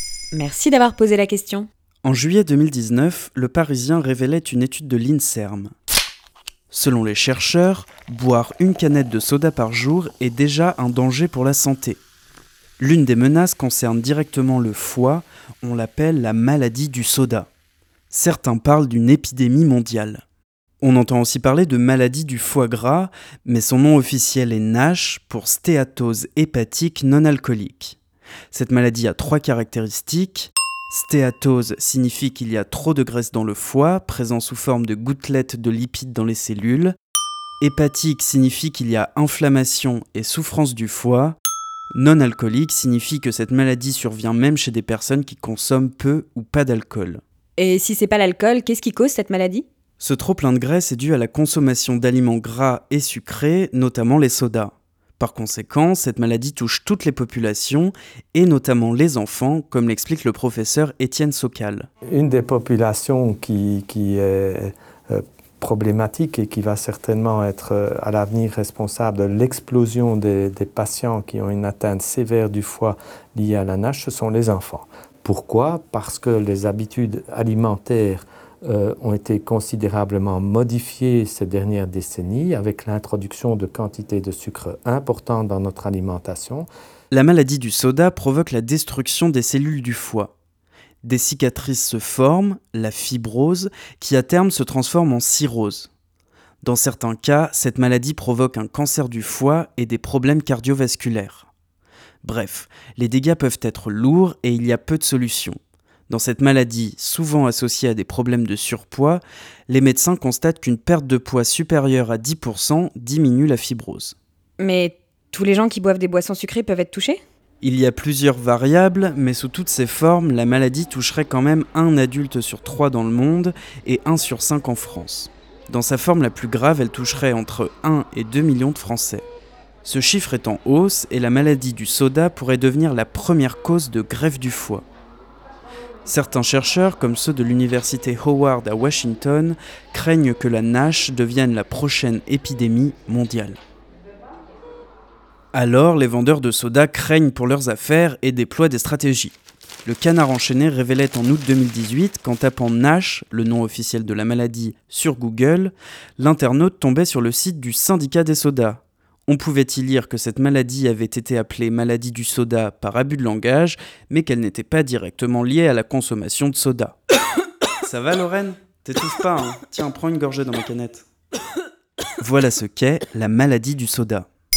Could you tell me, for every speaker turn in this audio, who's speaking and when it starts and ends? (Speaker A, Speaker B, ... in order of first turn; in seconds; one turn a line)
Speaker A: 0.3-1.7
Speaker B: 2.0-5.7
Speaker B: 6.7-12.0
Speaker B: 12.8-17.5
Speaker B: 18.1-20.2
Speaker B: 20.8-28.0
Speaker B: 28.5-37.0
Speaker B: 37.6-41.4
Speaker B: 42.0-47.2
Speaker A: 47.6-49.6
Speaker B: 50.0-61.9
Speaker C: 62.1-86.7
Speaker B: 87.1-90.3
Speaker B: 91.0-95.9
Speaker B: 96.6-101.5
Speaker B: 102.2-114.2
Speaker A: 114.6-117.2
Speaker B: 117.6-129.3
Speaker B: 129.8-134.8
Speaker B: 136.1-143.6
Speaker B: 145.5-167.0
Speaker B: 167.8-171.1
Speaker B: 172.2-174.3